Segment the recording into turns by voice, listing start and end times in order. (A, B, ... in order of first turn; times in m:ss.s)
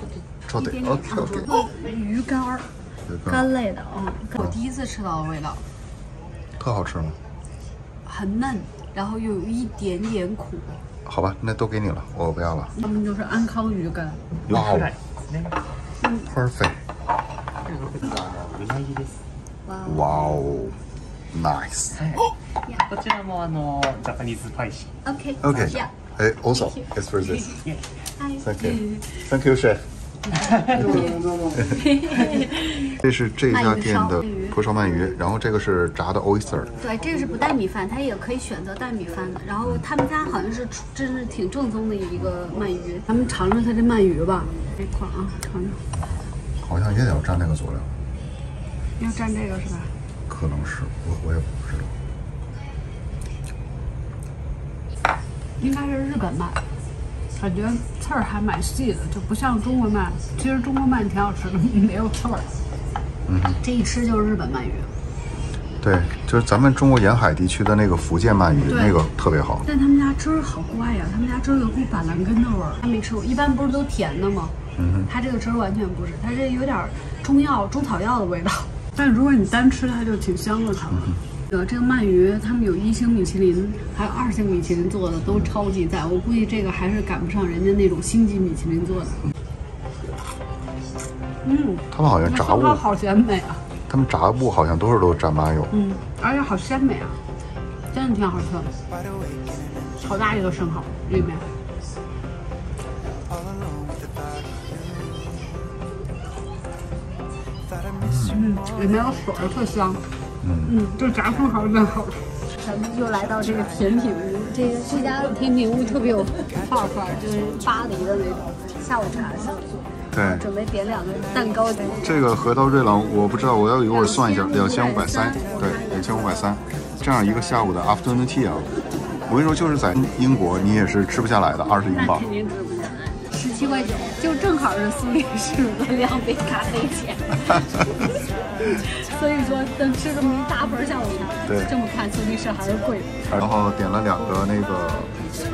0:00.5-0:01.5 A
0:00.5-0:02.7 B
0:03.1-0:03.4 A
0:03.3-0:05.6 B
0:06.6-0:07.2 A
0:08.0-0:10.8 B
0:11.0-0:12.7 A
0:12.8-0:14.2 B
0:14.5-0:14.9 A
0:14.5-0:15.6 C
0:16.0-0:16.3 B
0:16.3-0:16.8 A
0:17.6-0:19.2 C
0:19.6-0:20.2 B
0:19.8-0:20.8 A
0:21.3-0:22.0 A
0:22.0-0:22.2 C
0:22.8-0:24.9 C
0:25.0-0:25.9 B
0:25.4-0:27.5 A
0:28.2-0:29.2 B
0:28.4-0:29.8 A
0:30.6-0:32.9 B
0:33.0-0:36.7 A
0:33.5-0:34.6 B
0:36.8-0:45.8 B
0:46.6-0:47.9 A
0:49.0-0:49.9 B
0:50.3-0:51.9 A
0:55.6-0:56.6 B
0:57.4-1:02.5 B
1:03.3-1:03.6 A
1:03.6-1:04.9 B
1:05.8-1:09.6 A
1:08.7-1:09.0 B
1:09.6-1:14.5 B
1:14.8-1:15.1 A
1:15.1-1:29.2 B
1:31.4-1:33.6 B
1:31.9-1:32.8 A
1:33.9-1:35.7 A
1:35.7-1:37.2 B
1:37.9-1:38.7 B
1:40.0-1:41.4 B
1:48.0-1:48.4 A
1:48.2-1:50.0 B
1:50.4-1:50.8 A
1:50.7-1:59.6 B
2:00.1-2:00.5 A
2:00.2-2:02.1 B
2:02.0-2:08.7 A
2:03.9-2:06.4 B
2:09.3-2:12.2 A
2:11.9-2:17.4 B
2:18.6-2:23.4 B
2:21.5-2:21.7 A
2:23.3-2:25.1 A